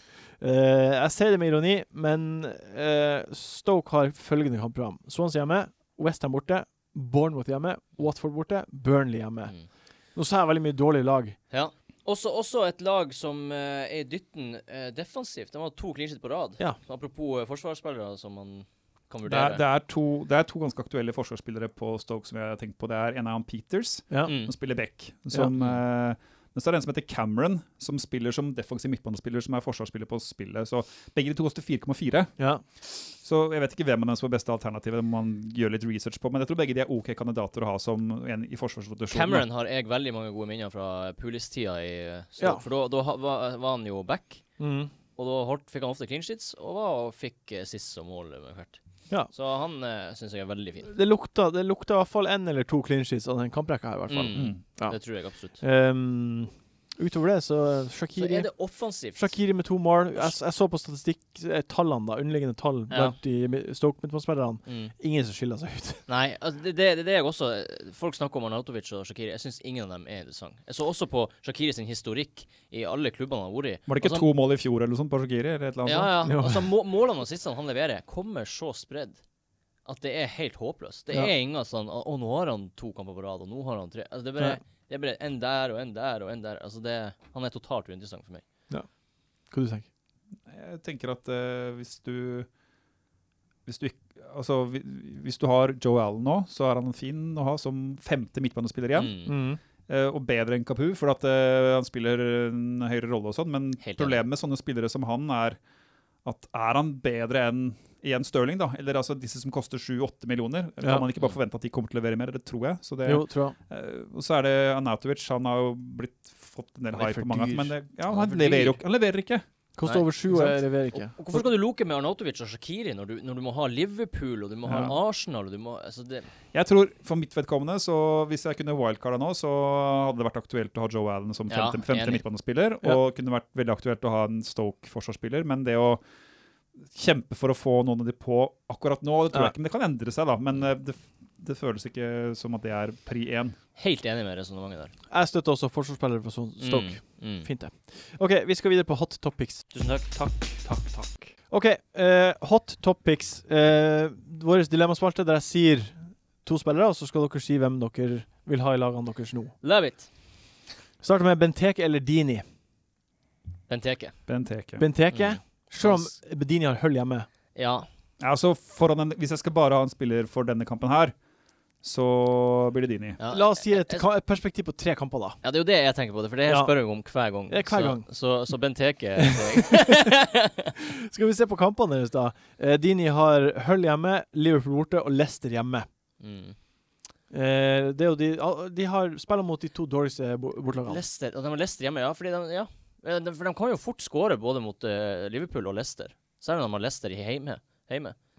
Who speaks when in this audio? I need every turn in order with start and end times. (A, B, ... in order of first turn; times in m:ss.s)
0:00.4-0:09.6 A
0:10.1-0:11.4 A
0:11.5-0:19.6 B
0:19.2-0:32.3 C
0:24.2-0:24.5 B
0:25.5-0:25.8 B
0:32.4-0:32.6 A
0:33.0-0:39.4 C
0:39.1-0:50.9 B
0:42.4-0:42.6 A
0:44.6-0:44.9 A
0:50.8-0:58.5 A
0:54.1-0:55.6 B
0:54.3-0:54.6 C
0:58.2-0:59.4 B
0:59.1-1:06.0 A
1:02.9-1:03.2 B
1:04.6-1:04.9 B
1:06.1-1:14.3 B
1:13.9-1:16.1 C
1:15.8-1:19.2 B
1:16.2-1:16.7 A
1:19.8-1:28.4 B
1:29.5-1:29.8 A
1:30.4-1:32.5 C
1:33.6-1:39.1 C
1:38.9-1:39.3 B
1:39.2-1:39.6 A
1:39.9-1:45.6 C
1:43.8-1:44.2 B
1:46.2-1:59.4 C
1:50.8-1:51.1 A
1:53.0-1:53.6 A
1:56.9-1:57.7 A
1:58.1-1:58.8 B
1:59.8-2:01.2 A
1:59.8-2:06.3 B
2:00.3-2:00.6 C
2:04.6-2:05.0 C
2:06.5-2:16.0 C
2:11.5-2:12.2 B
2:16.9-2:23.6 C
2:23.8-2:24.9 B
2:25.1-2:29.7 A
2:26.6-2:27.5 B
2:29.7-2:31.3 B
2:31.5-2:39.5 A
2:39.6-2:40.1 B
2:41.0-2:42.4 A
2:43.7-2:44.2 B
2:44.3-2:44.8 C
2:44.8-2:47.3 A
2:45.1-2:46.1 B
2:47.5-2:47.9 B
2:48.2-2:51.1 C
2:51.8-2:53.2 C
2:53.2-2:54.0 B
2:53.3-2:55.4 A
2:55.4-3:00.7 B
2:56.5-2:56.8 A
2:57.5-2:58.1 A
2:59.2-3:00.1 A
3:00.8-3:05.9 A
3:06.2-3:06.6 B
3:07.3-3:11.0 A
3:10.8-3:18.2 B